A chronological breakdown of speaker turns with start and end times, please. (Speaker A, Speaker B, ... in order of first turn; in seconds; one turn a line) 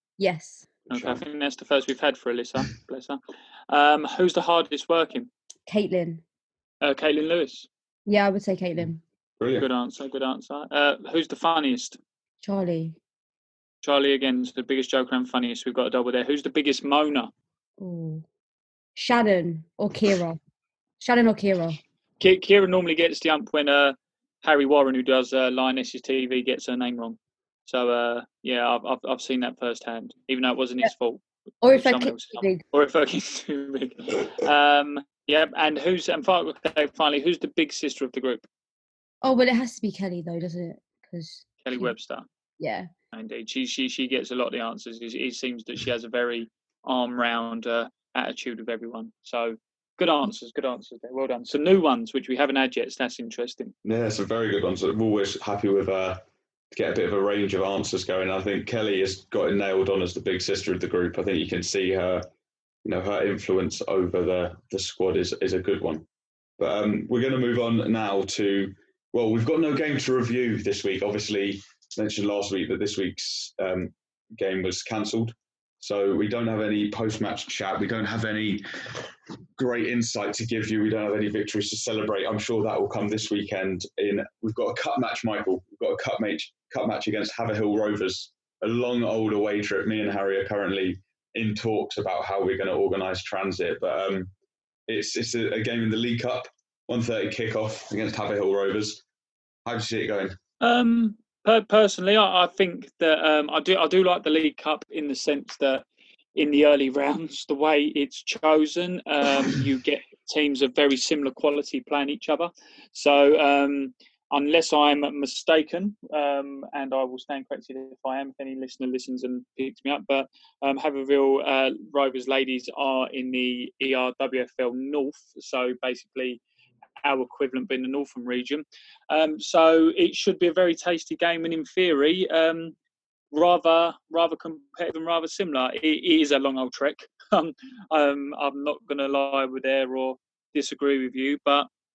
Speaker A: 0.2-0.7
Speaker B: 0.9-5.3
Speaker C: 0.9-1.2
Speaker A: 5.7-6.2
Speaker B: 6.8-7.7
Speaker A: 8.1-9.0
Speaker C: 9.4-9.7
Speaker B: 9.6-12.0
Speaker A: 12.4-13.0
Speaker B: 13.8-17.3
Speaker A: 17.8-18.2
Speaker A: 18.9-20.4
Speaker A: 21.0-21.8
Speaker B: 22.2-38.4
Speaker A: 31.6-32.6
Speaker A: 39.2-41.9
Speaker B: 41.6-42.2
Speaker A: 42.6-42.9
Speaker B: 43.1-53.7
Speaker C: 53.8-56.2
Speaker C: 56.7-62.2
Speaker C: 62.8-66.0
Speaker C: 66.6-78.6
Speaker C: 79.6-94.3
Speaker C: 94.9-99.0
Speaker C: 99.7-100.3
Speaker B: 100.6-126.4
Speaker B: 127.0-132.7
Speaker B: 133.3-141.7